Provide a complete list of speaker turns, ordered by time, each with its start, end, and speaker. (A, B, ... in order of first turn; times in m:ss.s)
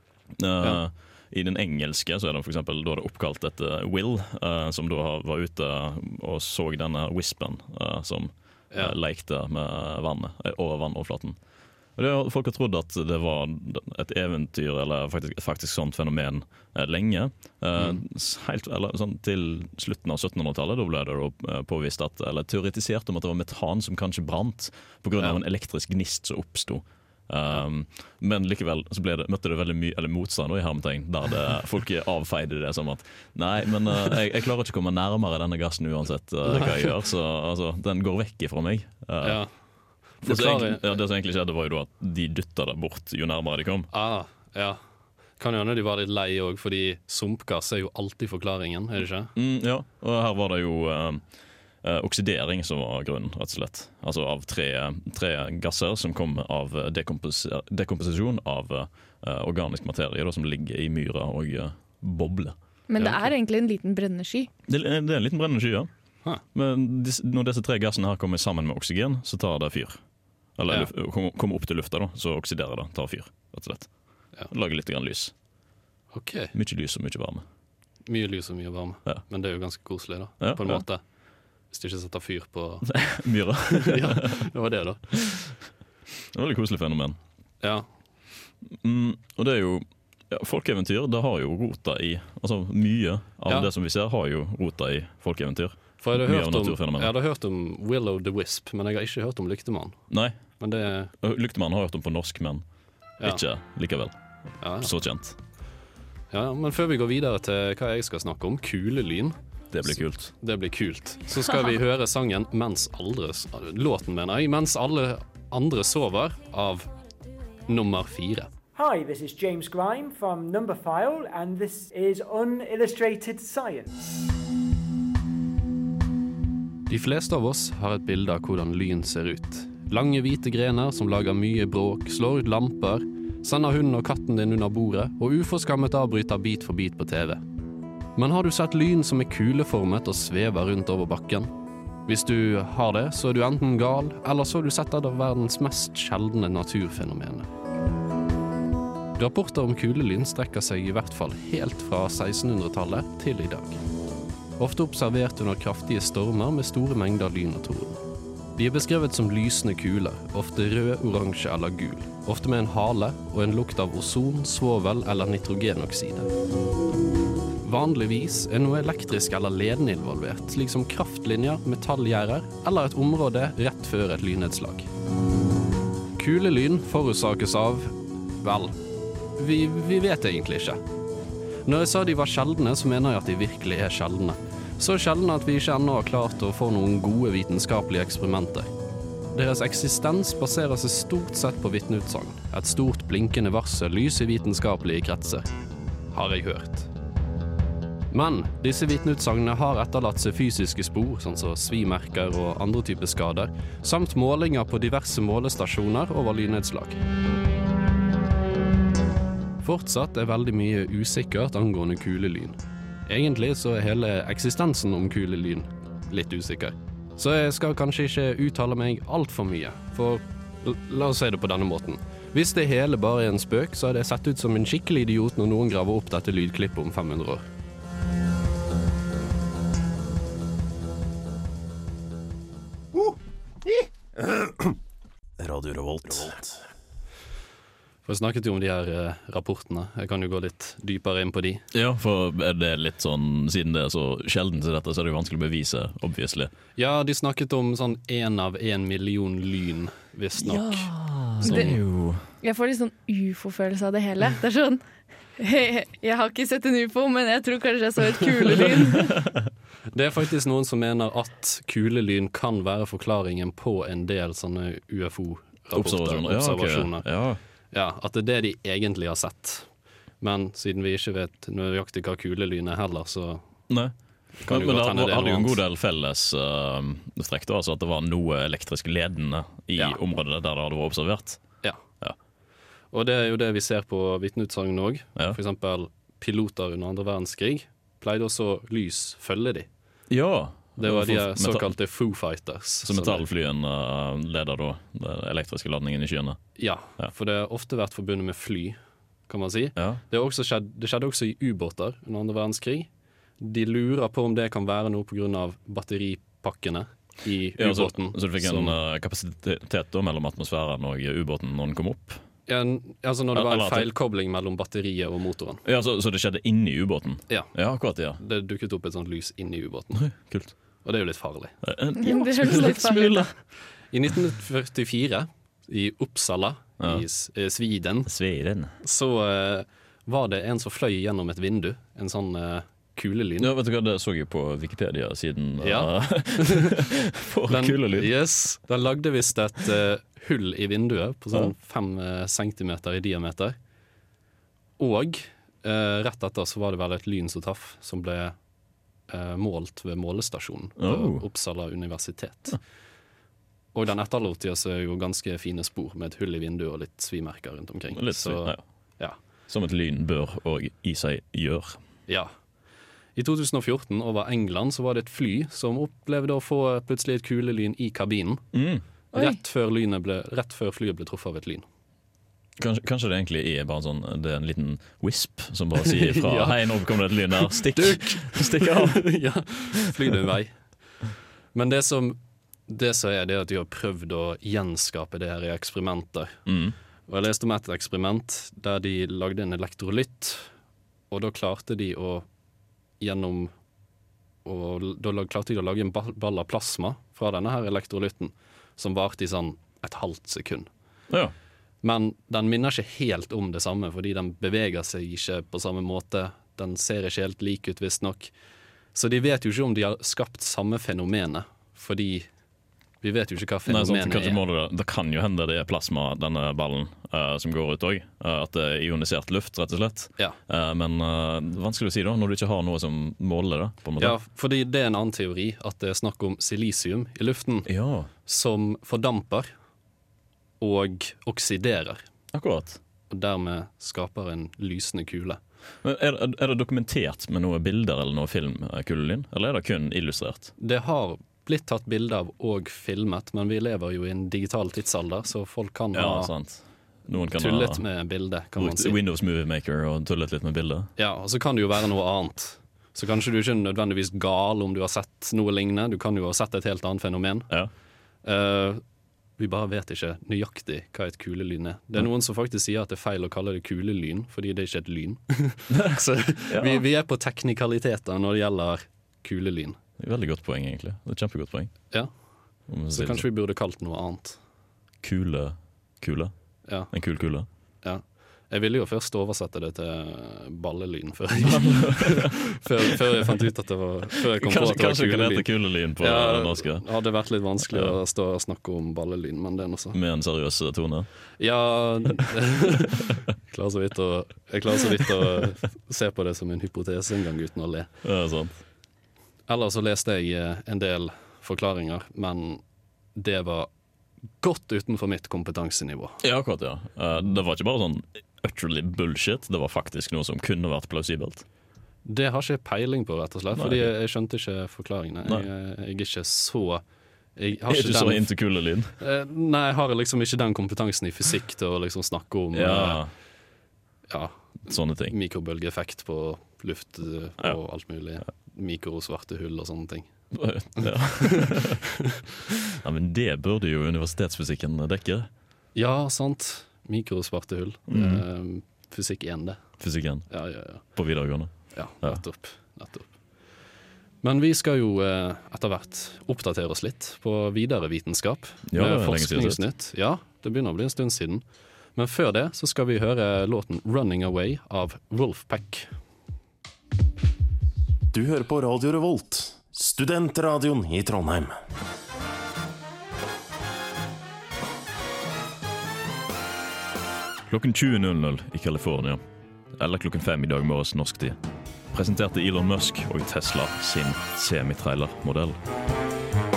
0:00.3-0:11.4 A
0:08.7-0:09.0 B
0:12.0-0:39.4 A
0:36.4-0:36.9 B
0:39.2-0:40.8 B
0:40.2-0:43.9 A
0:43.9-0:44.8 B
0:45.4-0:49.3 B
0:49.4-0:51.3 A
0:51.8-1:02.6 A
1:02.9-1:04.5 C
1:03.0-1:03.2 B
1:04.7-1:15.3 A
1:16.1-1:16.5 B
1:16.5-1:17.4 A
1:18.1-1:21.0 B
1:20.4-1:20.8 A
1:21.7-1:23.1 B
1:22.8-1:24.3 A
1:23.7-1:25.2 B
1:26.3-1:27.2 A
1:27.6-1:27.9 B
1:28.6-1:37.1 A
1:36.0-1:40.0 B
1:40.1-1:40.6 A
1:40.6-1:41.1 B
1:41.2-1:45.4 A
1:44.6-1:45.0 B
1:46.3-1:56.9 B
1:49.7-1:50.3 A
1:57.7-1:58.5 B
1:58.7-2:03.9 D
2:06.9-2:17.4 B
2:18.2-2:21.5 B
2:22.0-2:27.5 B
2:29.2-2:33.8 B
2:34.6-2:38.0 B
2:38.6-2:46.3 B
2:47.6-2:54.9 B
2:56.2-2:58.8 B
2:59.4-3:00.8 B
3:01.6-3:08.7 B
3:09.3-3:15.5 B
3:16.1-3:16.9 B
3:18.1-3:27.0 B
3:29.6-3:47.4 B
3:55.4-3:56.4 E
3:56.0-3:56.3 A
3:58.0-4:01.6 B
4:01.7-4:06.5 A
4:06.8-4:11.8 B
4:10.4-4:12.2 A
4:11.4-4:11.7 C
4:12.4-4:14.8 C
4:15.4-4:19.1 C
4:19.9-4:33.4 B
4:25.7-4:27.4 A
4:33.7-4:42.2 A
4:34.4-4:35.6 B
4:42.9-4:49.7 B
4:50.1-4:51.8 A
4:50.8-4:53.2 B
4:52.8-4:57.1 A
4:56.6-5:08.8 B
4:59.8-5:00.0 A
5:07.6-5:12.2 A
5:12.5-5:15.6 B
5:13.3-5:13.9 A
5:15.6-5:18.2 A
5:17.3-5:20.2 B
5:19.9-5:20.5 A
5:20.8-5:21.6 B
5:21.6-5:23.3 A
5:22.0-5:23.3 C
5:23.8-5:28.1 B
5:26.8-5:27.0 A
5:28.0-5:28.7 A
5:28.8-5:33.5 B
5:33.4-5:38.1 A
5:35.6-5:36.7 B
5:37.5-5:43.6 B
5:44.8-5:48.4 B
5:49.1-5:52.6 B
5:50.8-5:51.2 A
5:53.7-5:59.2 B
5:57.9-6:01.8 A
6:02.1-6:02.3 B
6:03.1-6:08.5 B
6:08.5-6:08.8 A
6:09.1-6:09.4 C
6:09.1-6:11.6 B
6:12.6-6:19.2 A
6:15.8-6:26.5 B
6:26.4-6:26.8 A
6:27.1-6:30.5 B
6:31.1-6:32.3 B
6:33.0-6:33.5 B
6:34.4-6:40.7 B
6:41.8-6:48.3 B
6:48.9-6:52.3 B
6:53.0-6:54.4 B
6:53.6-7:04.2 A
7:04.0-7:07.7 B
7:07.6-7:08.1 A
7:08.2-7:09.5 B
7:10.6-7:12.0 B
7:12.3-7:12.8 A
7:13.1-7:15.4 B
7:15.8-7:20.5 A
7:20.6-7:26.3 B
7:25.9-7:27.8 A
7:27.3-7:29.0 B
7:28.6-7:30.9 A
7:31.0-7:37.6 B
7:38.2-7:38.8 B
7:39.4-7:49.8 B
7:45.8-7:46.8 A
7:50.0-7:52.0 A
7:51.9-7:54.4 B
7:52.7-7:53.3 A
7:55.0-7:57.5 A
7:56.7-7:57.0 B
7:57.8-8:10.0 B
8:01.4-8:02.4 A
8:04.4-8:06.9 A
8:07.7-8:08.0 A
8:09.9-8:11.1 A
8:11.4-8:17.9 B
8:18.0-8:18.6 A
8:19.5-8:22.6 B
8:23.1-8:23.7 B
8:24.4-8:26.2 B
8:26.2-8:31.4 A
8:32.0-8:36.8 B
8:33.5-8:33.9 A
8:37.3-8:43.2 B
8:37.7-8:38.9 A
8:42.5-8:43.1 A
8:44.1-8:51.6 B
8:44.6-8:45.1 A
8:50.3-8:51.8 A
8:52.8-8:55.3 A
8:55.7-9:00.9 B
8:57.9-8:58.2 A
8:59.8-9:02.2 A
9:01.7-9:03.5 B
9:04.2-9:16.0 B
9:08.7-9:09.6 A
9:18.1-9:21.6 E
9:27.5-9:29.2 A
9:29.7-9:31.4 A
9:31.9-9:35.6 A